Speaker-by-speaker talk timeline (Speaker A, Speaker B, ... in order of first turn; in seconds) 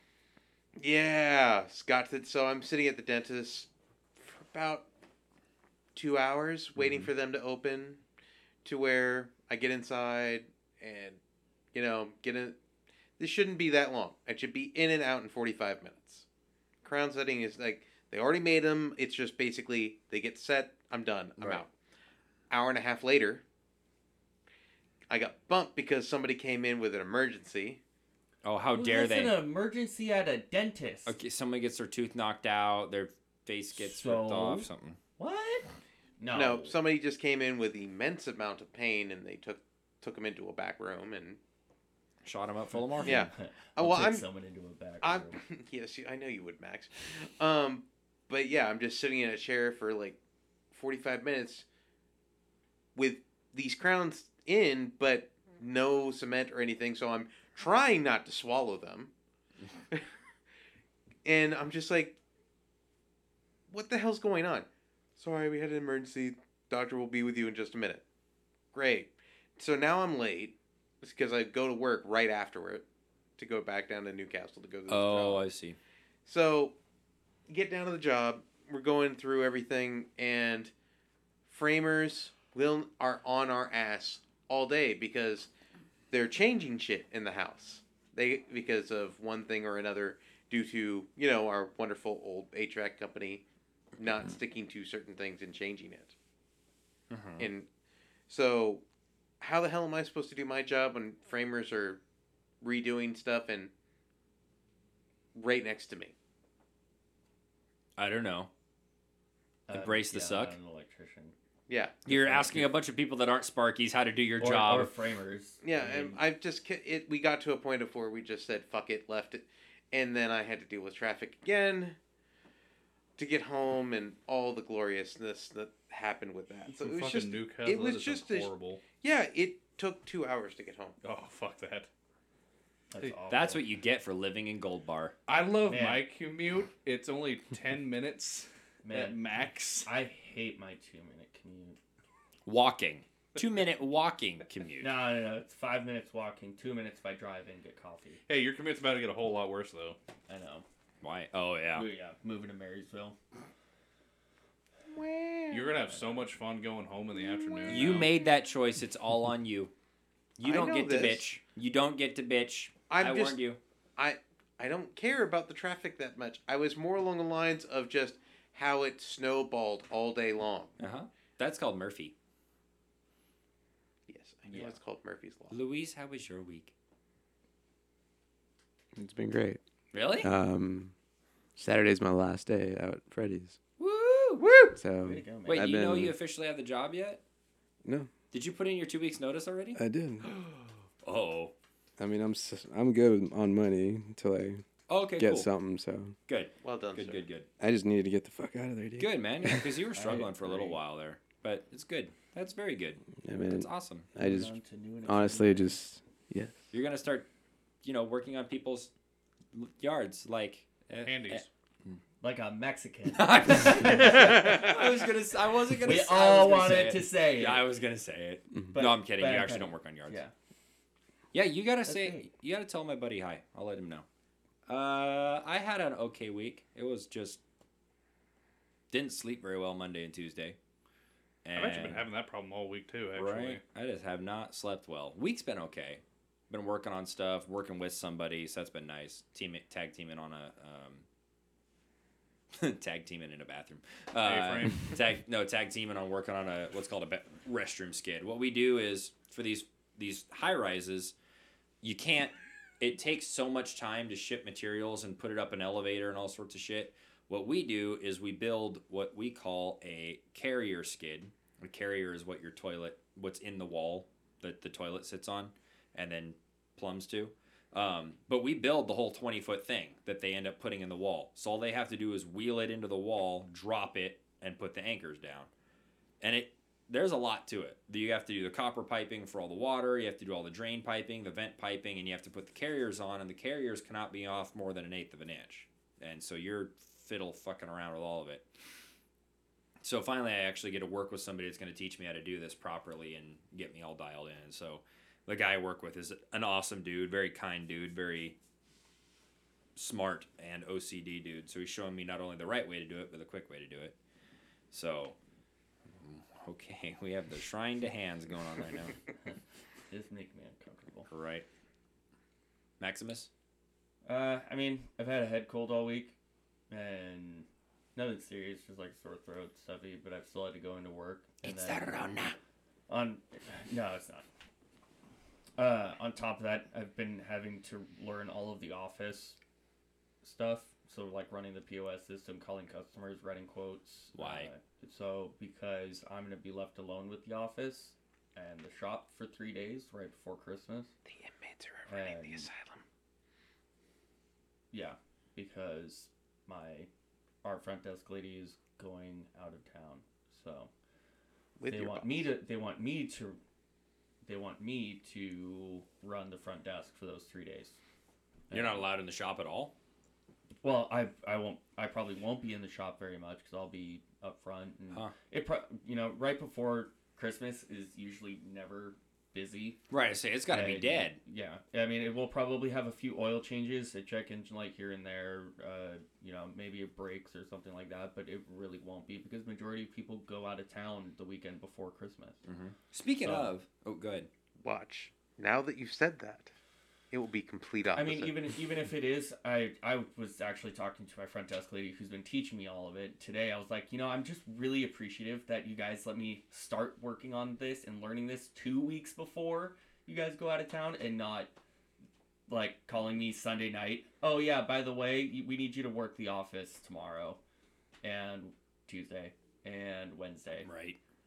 Speaker A: 0.8-4.8, 5.9-8.0, 8.6-11.2, 11.7-12.6, 13.2-16.2, 16.8-21.7, 22.5-23.4, 25.1-27.8, 36.3-41.4, 43.0-44.2, 45.0-50.2, 50.7-51.6, 52.9-59.1, 61.2-62.2, 63.7-68.0, 68.7-72.8, 73.4-75.5, 76.2-76.7, 77.5-80.7, 81.5-85.5, 86.1-93.4, 94.0-96.1, 97.4-97.7, 98.3-98.8, 99.4-102.0, 102.6-103.7, 105.3-106.1, 111.7-112.0, 115.6-122.0, 123.2-130.9, 154.9-155.7, 157.5-158.0, 160.4-161.2, 162.9-163.4, 164.0-170.7, 174.1-175.6, 196.6-197.2, 341.1-342.8, 351.6-352.3, 384.6-386.5, 387.1-388.3
Speaker B: 21.4-21.6, 28.4-29.4, 31.1-35.0, 42.2-43.2, 74.9-75.8, 97.1-97.5, 108.0-108.5, 109.7-110.5, 112.0-114.9, 133.3-135.1, 142.4-144.9, 151.0-151.9, 157.7-159.7, 160.4-163.6, 170.8-172.1, 175.5-176.7, 179.9-180.3, 183.8-184.8, 185.4-187.2, 188.3-191.5, 194.9-195.5, 196.3-197.5, 199.0-204.1, 206.7-207.3, 207.8-208.9, 209.5-212.0, 213.1-220.2, 221.3-224.0, 224.7-227.4, 228.9-230.6, 231.4-232.0, 233.1-241.0, 242.5-251.1, 251.8-275.5, 276.2-288.4, 289.8-298.4, 299.8-303.9, 304.7-305.1, 306.0-308.9, 311.1-311.4, 312.8-313.3, 321.4-322.4, 334.1-334.5, 358.5-359.7, 369.9-371.2, 382.4-384.3, 410.6-411.0
Speaker C: 28.7-31.1, 33.7-35.7, 36.2-36.7, 42.7-45.4, 109.7-111.3, 112.0-112.7, 114.4-116.2, 132.9-133.6, 135.6-136.0, 138.8-139.2, 139.8-141.8, 144.8-148.2, 150.3-150.6, 151.7-153.2, 155.8-156.3, 174.5-174.8, 185.0-185.8, 199.9-200.8, 204.2-205.8, 212.2-214.7, 215.8-217.6, 218.7-220.3, 221.8-222.3, 309.9-311.1, 314.1-316.1, 316.7-322.1, 322.9-324.2, 325.6-329.4, 330.2-340.9, 341.9-342.5, 344.7-346.9, 347.4-350.7, 351.7-353.4, 354.2-357.8, 358.5-358.9, 360.6-369.8, 370.5-382.4, 383.2-383.5, 387.9-401.5, 402.5-407.4, 408.0-410.7
Speaker D: 126.7-128.8, 131.0-131.9, 135.3-139.9, 148.3-150.0, 155.5-158.1, 211.0-211.5, 231.5-233.6, 244.2-244.9
Speaker E: 178.9-179.6, 180.2-180.9, 181.6-183.6, 184.8-186.1, 187.8-188.1, 189.7-190.3, 192.0-194.6, 195.2-196.1, 197.6-199.7, 203.2-204.5, 205.0-206.6